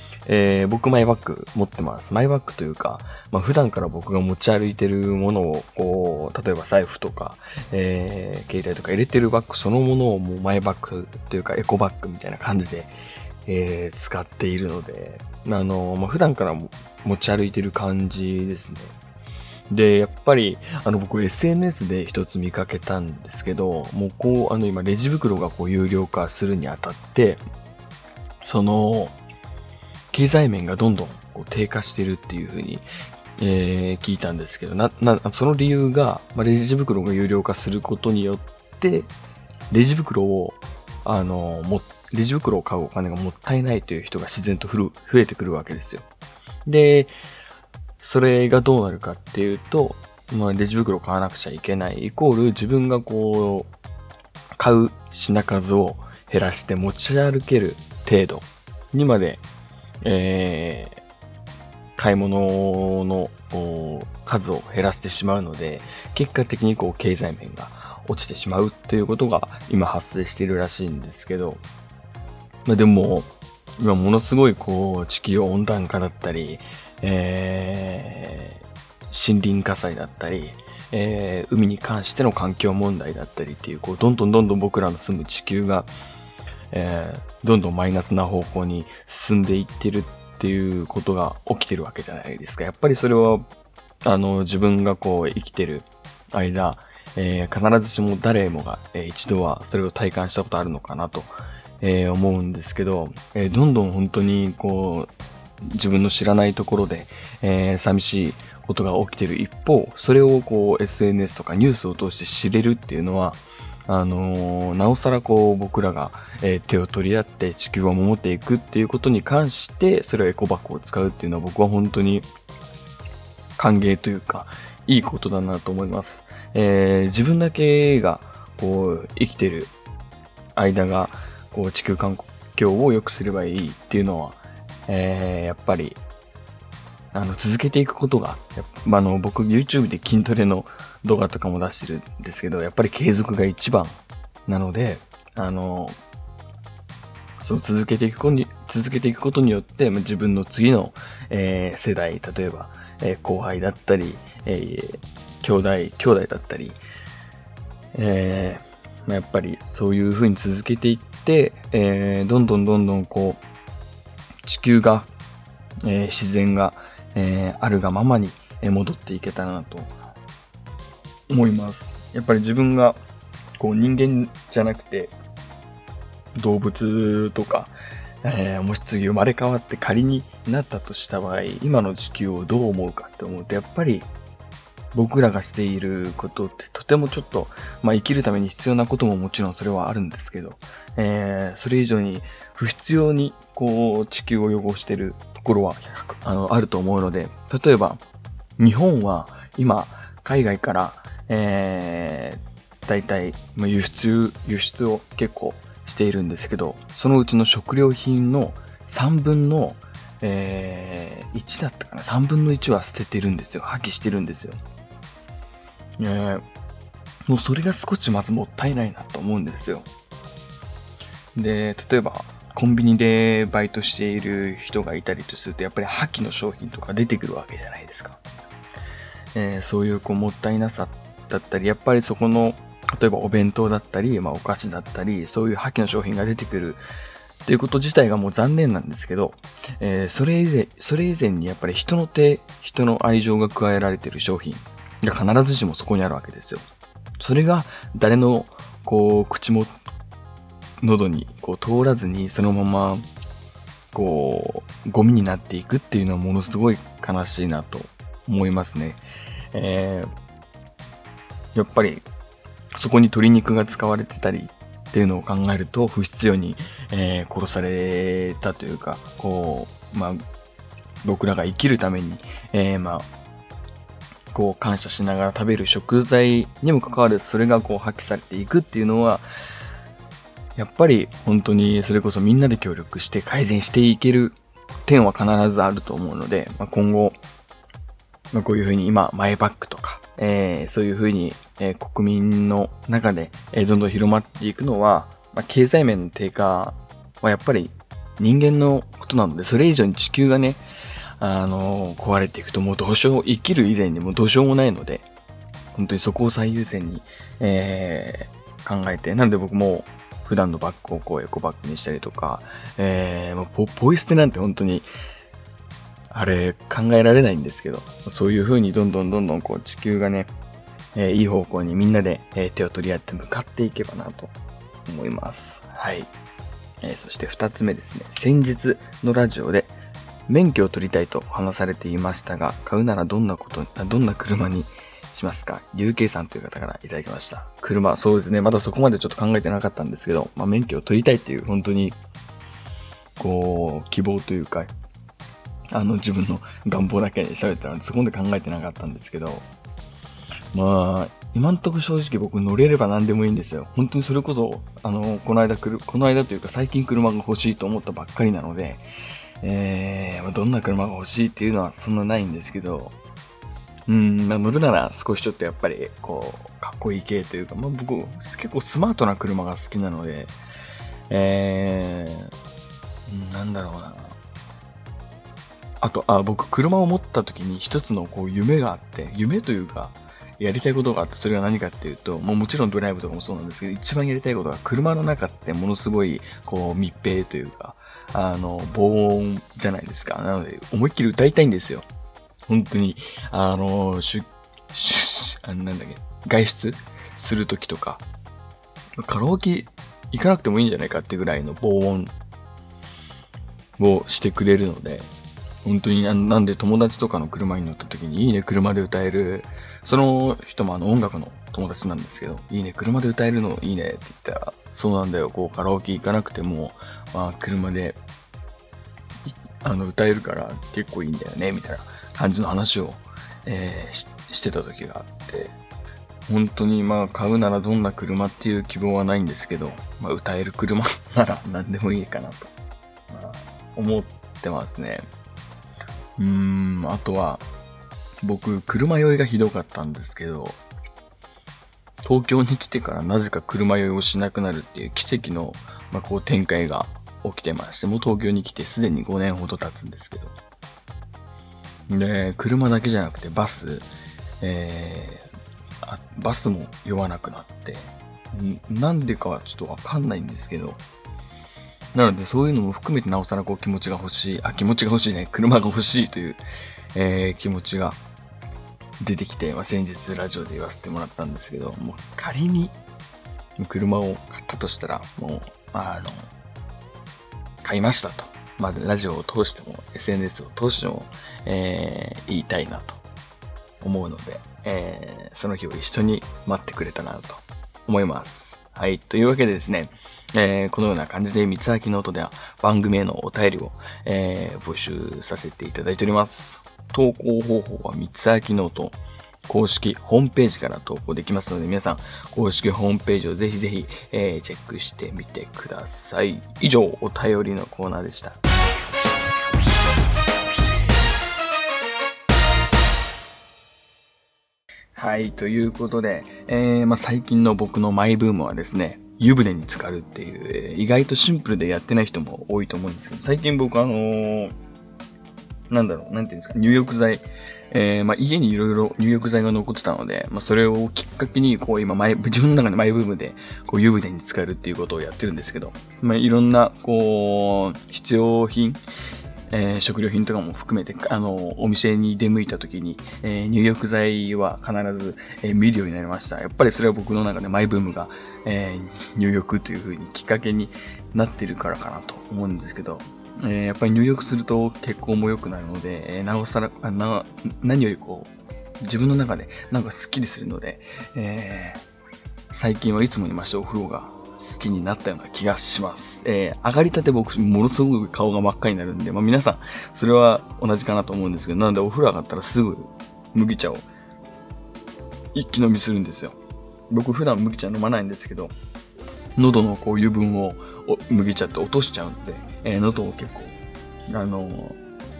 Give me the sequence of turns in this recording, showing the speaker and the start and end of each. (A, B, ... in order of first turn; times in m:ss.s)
0:00.2-0:12.9 A
0:13.4-0:19.0 A
0:19.7-0:27.4 A
0:28.4-0:29.2 A
0:30.1-0:32.8 A
0:33.4-0:39.1 A
0:39.7-0:46.0 A
0:46.6-0:47.1 A
0:48.0-0:53.7 A
0:54.6-0:59.4 A
1:00.0-1:01.0 A
1:02.0-1:11.6 A
1:12.6-1:25.9 A
1:26.7-1:33.4 A
1:34.0-1:45.1 A
1:45.7-2:02.3 A
2:03.6-2:09.7 A
2:10.6-2:16.0 A
2:17.1-2:26.0 A
2:27.4-2:36.8 A
2:37.9-2:43.4 A
2:44.4-2:45.1 A
2:45.8-2:49.9 A
2:51.3-2:53.0 A
2:53.6-2:55.1 A
2:56.4-3:04.1 A
3:04.9-3:18.0 A
3:18.6-3:34.6 A
3:36.0-3:36.4 A
3:37.3-3:39.9 A
3:41.3-3:48.2 A
3:49.3-3:56.8 A
3:57.4-4:06.6 A
4:07.2-4:09.8 A
4:10.8-4:13.0 A
4:13.9-4:19.0 A
4:19.5-4:20.1 A
4:21.5-4:22.0 A
4:22.7-4:30.2 A
4:31.0-4:33.1 A
4:34.3-4:39.2 A
4:40.6-4:47.2 A
4:48.3-5:00.6 A
5:01.2-5:05.1 A
5:05.7-5:14.9 A
5:16.1-5:20.3 A
5:20.9-5:24.3 A
5:24.8-5:26.1 A
5:26.8-5:29.7 A
5:30.3-5:42.0 A
5:43.2-5:44.7 A
5:45.7-5:49.4 A
5:50.5-5:58.8 A
5:59.4-6:03.0 A
6:03.9-6:10.3 A
6:11.1-6:12.3 A
6:13.1-6:14.2 A
6:15.8-6:31.8 A
6:32.5-6:38.0 A
6:39.0-6:42.1 A
6:43.8-6:45.1 A
6:45.6-6:58.0 A
6:59.2-7:05.5 A
7:06.3-7:12.5 A
7:13.1-7:15.0 A
7:16.2-7:17.4 A
7:18.2-7:20.6 A
7:22.0-7:30.3 A
7:31.9-7:33.9 A
7:34.4-7:35.3 A
7:35.8-7:40.8 A
7:41.9-7:46.4 A
7:46.9-7:48.0 A
7:49.0-7:52.7 A
7:53.6-7:56.2 A
7:57.6-8:03.0 A
8:03.8-8:28.4 A
8:34.9-8:44.5 A
8:45.7-8:58.8 A
8:59.5-9:21.8 A
9:22.5-9:33.9 A
9:35.3-9:36.4 A
9:36.9-9:38.5 A
9:39.4-9:43.5 A
9:44.1-9:44.8 A